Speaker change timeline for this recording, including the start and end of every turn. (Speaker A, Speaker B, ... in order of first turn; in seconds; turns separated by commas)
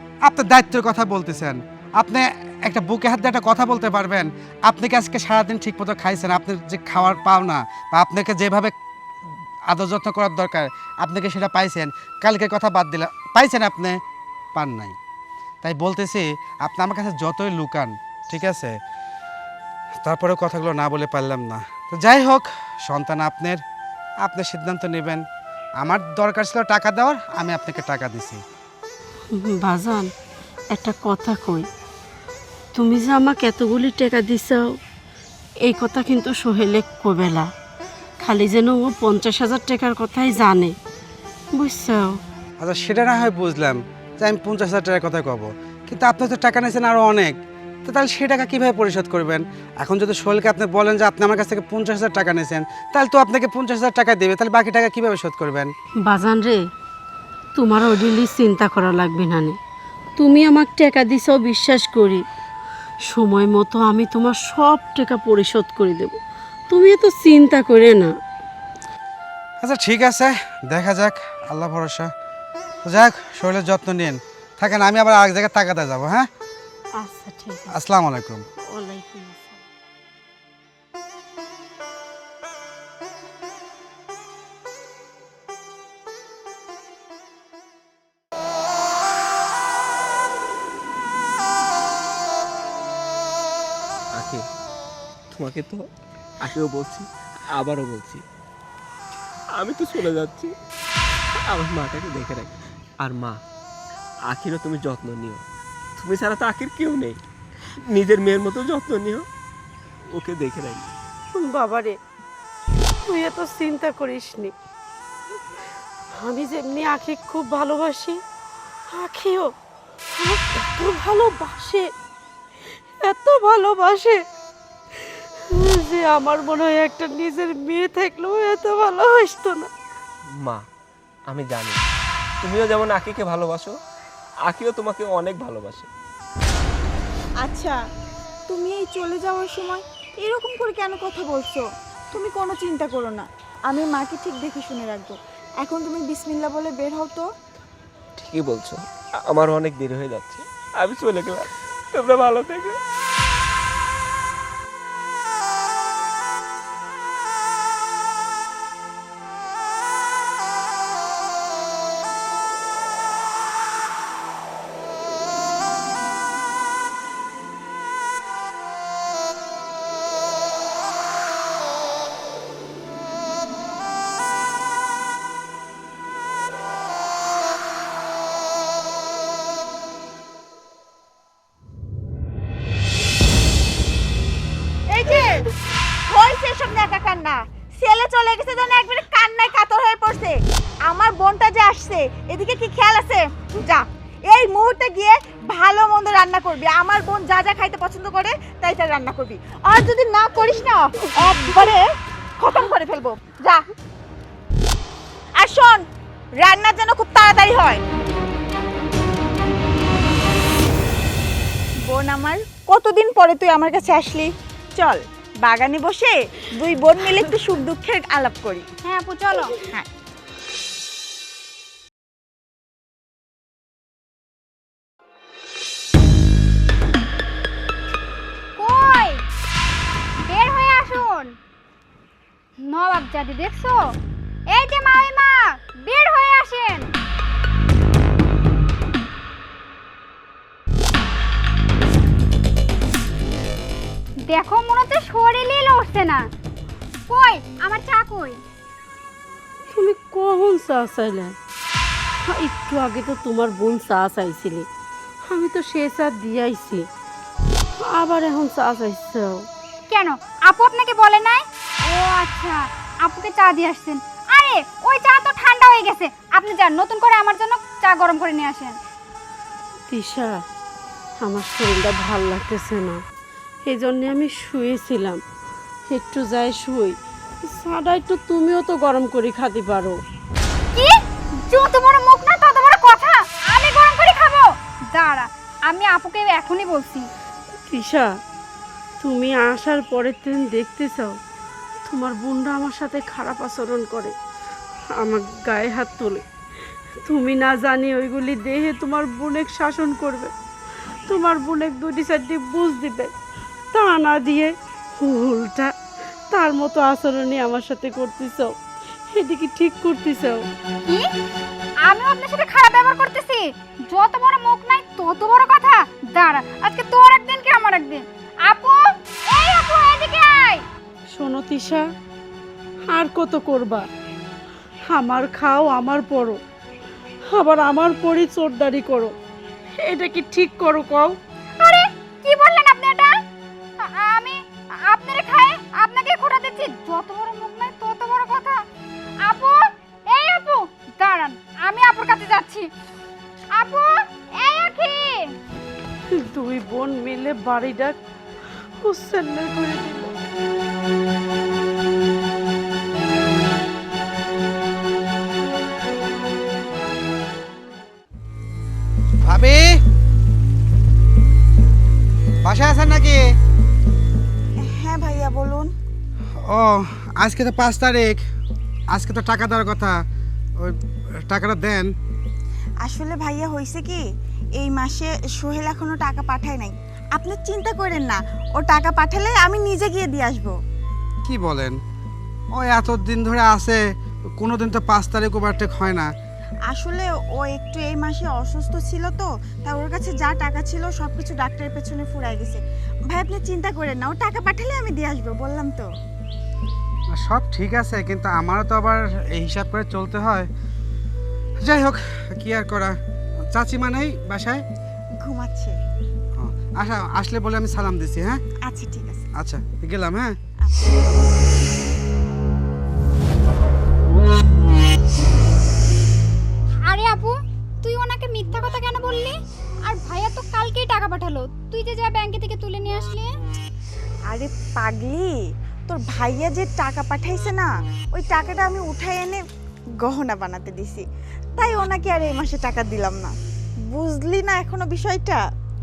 Speaker A: 0.2-8.7, Speaker A: 9.7-14.0, Speaker A: 14.5-14.9, Speaker A: 15.6-18.8, Speaker A: 20.0-23.6, Speaker A: 24.2-25.2, Speaker A: 25.8-28.4, Speaker B: 29.3-30.1, Speaker B: 30.7-31.7, Speaker B: 32.7-34.8, Speaker B: 35.6-37.5, Speaker B: 38.2-40.8, Speaker B: 41.5-42.2, Speaker A: 42.6-55.7, Speaker B: 56.0-56.6, Speaker B: 57.5-59.6, Speaker B: 60.2-62.2, Speaker B: 63.1-66.2, Speaker B: 66.7-68.2, Speaker A: 69.6-72.1, Speaker A: 72.8-76.3, Speaker B: 77.0-77.8, Speaker A: 77.7-78.4, Speaker B: 78.6-79.6, Speaker C: 94.1-94.5, Speaker C: 95.3-98.2, Speaker C: 99.5-100.5, Speaker C: 101.3-103.4, Speaker C: 104.2-105.4, Speaker C: 106.0-109.3, Speaker C: 110.1-110.9, Speaker B: 111.4-112.0, Speaker B: 113.0-114.5, Speaker B: 116.1-118.2, Speaker B: 118.9-119.5, Speaker B: 120.2-121.9, Speaker B: 123.0-124.2, Speaker B: 125.0-129.7, Speaker C: 130.4-130.6, Speaker C: 131.3-131.8, Speaker C: 132.4-133.8, Speaker C: 134.4-135.9, Speaker D: 137.4-137.8, Speaker D: 138.5-147.3, Speaker C: 148.2-152.8, Speaker D: 184.9-185.5, Speaker D: 186.1-203.6, Speaker D: 205.3-205.8, Speaker D: 206.4-207.8, Speaker D: 211.8-218.7, Speaker E: 218.8-219.7, Speaker E: 228.6-229.2, Speaker E: 230.3-231.3, Speaker E: 232.6-233.9, Speaker E: 234.5-236.9, Speaker E: 244.3-246.2, Speaker E: 247.1-248.4, Speaker B: 249.7-251.3, Speaker B: 252.2-254.7, Speaker B: 255.3-256.9, Speaker B: 257.8-259.5, Speaker E: 259.9-268.8, Speaker B: 269.9-270.4, Speaker B: 271.2-273.0, Speaker B: 273.6-275.2, Speaker B: 275.9-280.0, Speaker E: 280.7-287.1, Speaker B: 287.7-288.1, Speaker B: 289.0-291.1, Speaker B: 291.9-294.1, Speaker B: 294.9-296.2, Speaker B: 297.0-300.3, Speaker B: 301.1-303.1, Speaker B: 303.7-305.7, Speaker B: 306.3-308.5, Speaker B: 309.1-310.4, Speaker E: 310.8-311.1, Speaker E: 311.8-320.6, Speaker B: 321.1-321.9, Speaker B: 322.9-323.9, Speaker B: 324.9-326.4, Speaker B: 327.3-329.1, Speaker B: 329.8-331.2, Speaker E: 331.6-333.2, Speaker E: 333.8-338.6, Speaker E: 339.2-342.7, Speaker E: 343.5-345.3, Speaker B: 346.1-348.0, Speaker B: 348.8-350.1, Speaker A: 359.2-359.8, Speaker A: 362.4-363.2, Speaker D: 364.6-365.7, Speaker A: 366.4-368.2, Speaker A: 368.9-370.0, Speaker A: 370.6-371.9, Speaker D: 372.8-374.0, Speaker D: 374.6-380.6, Speaker A: 381.2-381.8, Speaker A: 382.5-383.8, Speaker A: 384.4-386.1, Speaker D: 386.7-395.9, Speaker A: 397.1-400.5, Speaker A: 401.6-403.0, Speaker A: 403.5-404.6, Speaker D: 405.2-405.8, Speaker A: 406.4-408.4, Speaker D: 408.6-409.3, Speaker A: 409.4-410.4, Speaker E: 416.9-423.3, Speaker D: 424.3-429.4, Speaker D: 430.0-431.0, Speaker D: 431.6-433.4, Speaker D: 433.9-435.4